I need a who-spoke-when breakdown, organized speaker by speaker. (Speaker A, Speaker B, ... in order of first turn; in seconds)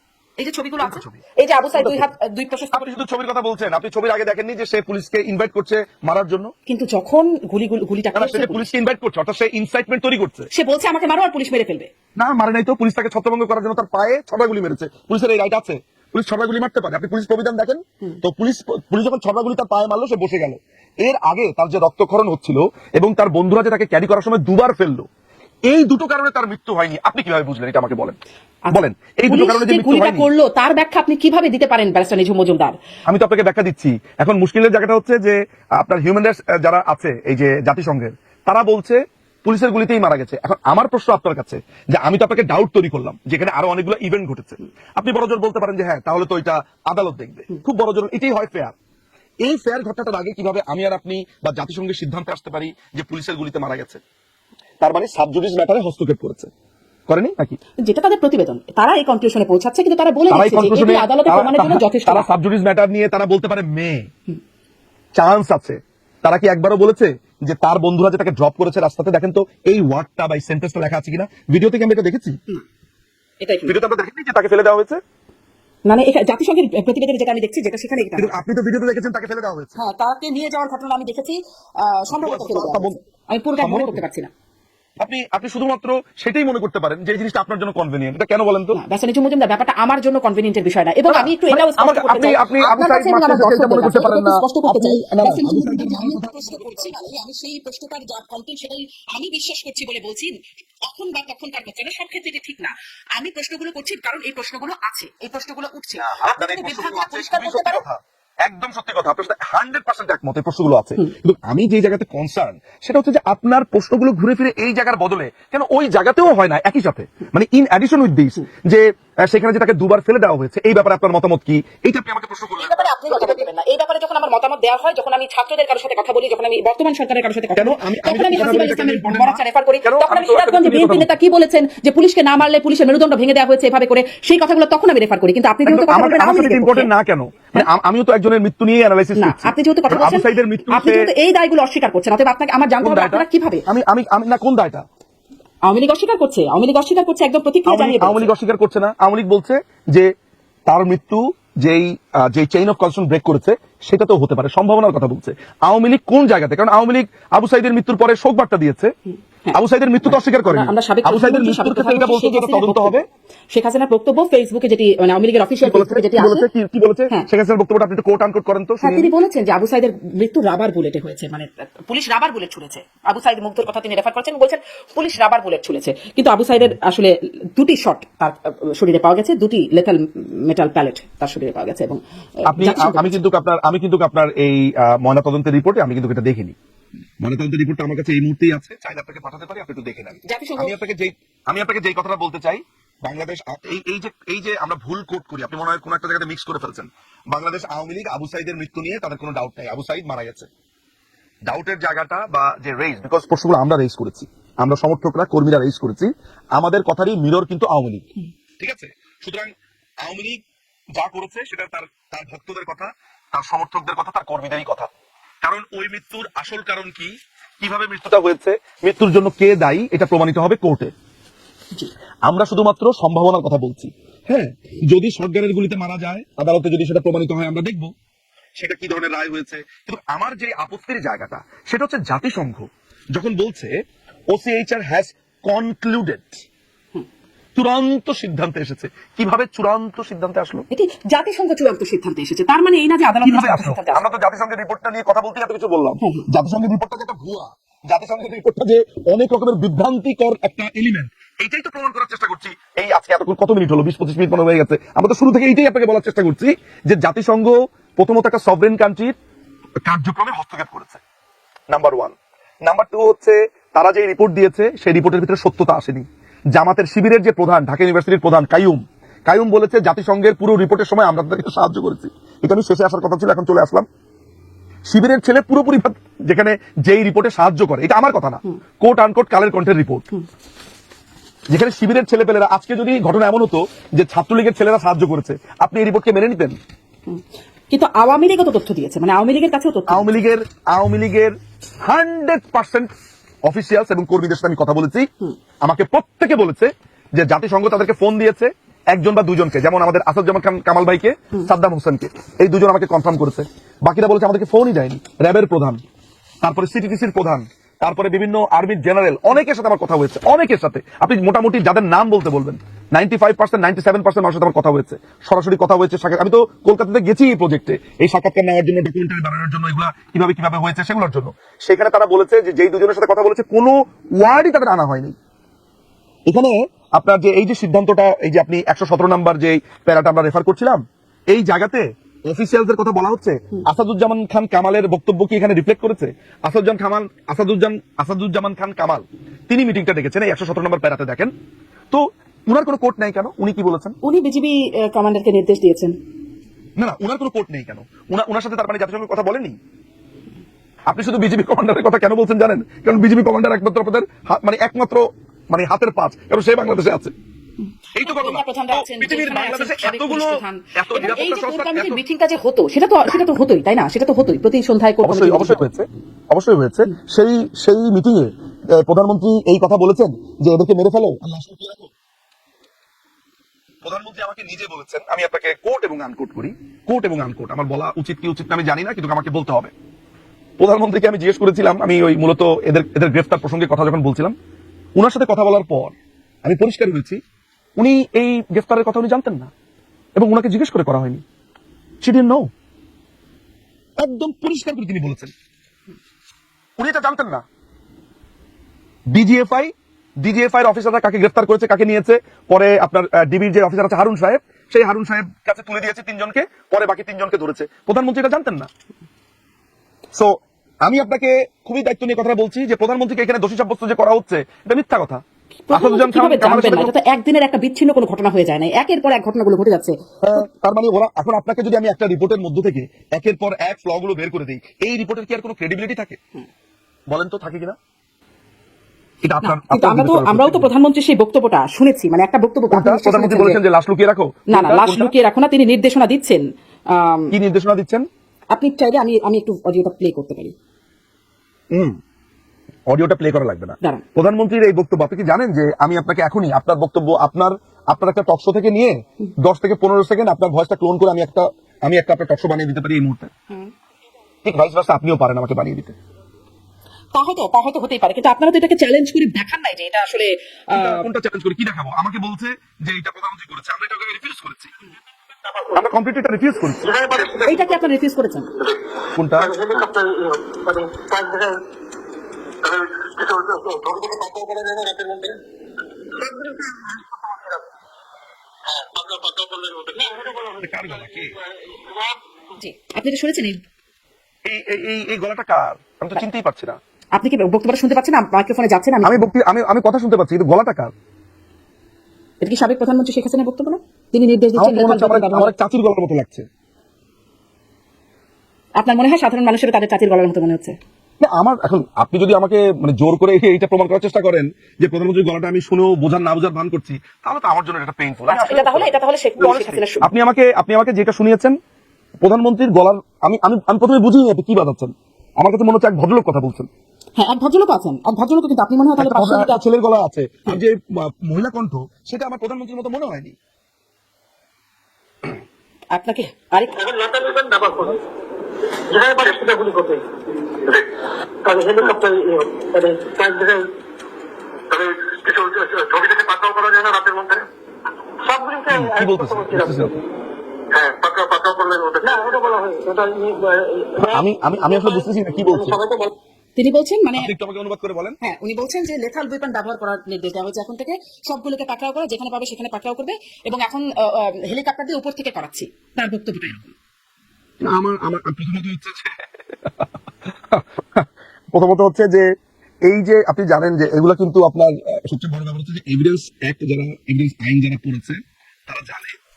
Speaker A: 0.4-2.9, 6.7-8.7, 10.5-11.9, 28.6-32.8, 57.8-62.3, 73.4-73.7, 75.8-78.4, 79.7-84.3, 88.7-107.8, 122.6-136.9, 139.2-143.6, 145.6-148.3, 159.4-163.0, 163.5-166.5, 168.8-183.2, 190.2-190.7, 240.7-244.1, 287.1-290.1, 344.0-346.0, 358.0-365.6, 415.7-420.0, 429.4-433.6, 434.5-437.3, 438.5-440.5, 457.1-461.1, 467.4-468.5, 482.6-483.6, 487.1-489.3, 492.4-495.5, 498.8-500.8, 508.3-510.1, 517.2-519.6, 525.9-526.8, 546.5-547.3, 548.2-556.7
Speaker B: 0.8-1.2, 1.7-2.1, 2.7-6.5, 8.1-10.5, 12.2-25.1, 25.7-28.2, 28.7-30.3, 33.1-48.7, 49.4-54.0, 54.8-56.5, 57.1-57.6, 60.3-64.1, 65.2-72.4, 73.7-75.0, 78.2-79.8, 82.1-83.0, 83.6-84.0, 85.0-88.8, 91.1-97.0, 106.0-123.5, 127.5-131.1, 135.6-141.1, 142.8-144.8, 147.7-150.1, 150.7-158.9, 159.5-163.1, 165.6-169.1, 182.4-186.6, 187.2-200.5, 201.5-208.1, 208.6-209.5, 210.0-210.4, 210.9-214.9, 215.4-220.9, 222.3-227.9, 228.6-233.8, 234.3-236.4, 237.6-240.7, 243.2-259.1, 259.8-261.0, 261.7-273.9, 274.9-280.0, 281.5-286.6, 289.9-292.9, 293.4-295.1, 295.6-305.8, 306.4-325.1, 326.3-341.3, 341.9-343.9, 346.8-349.6, 350.9-357.1, 357.9-362.0, 365.0-371.9, 373.8-379.7, 380.6-384.3, 384.9-387.2, 387.8-389.5, 390.1-391.2, 392.0-392.5, 394.0-395.3, 396.8-397.4, 399.1-408.7, 410.1-416.9, 420.2-426.2, 427.1-427.8, 429.2-430.7, 432.7-435.1, 437.3-438.1, 441.7-442.0, 442.9-453.3, 454.4-455.9, 460.7-464.7, 465.7-466.9, 469.1-469.5, 480.6-481.3, 484.4-486.8, 489.0-490.9, 494.6-496.5, 501.2-511.6, 512.2-516.7, 519.0-523.3, 538.7-539.9, 544.0-545.8, 547.1-548.2, 557.6-562.3, 562.8-569.2
Speaker C: 465.4-465.7, 466.8-467.8, 469.4-471.6, 472.6-475.4, 476.1-477.6, 478.7-482.1, 526.8-528.0, 528.9-530.0, 530.6-530.9, 531.4-533.7, 534.7-537.5, 538.2-540.0, 540.7-546.1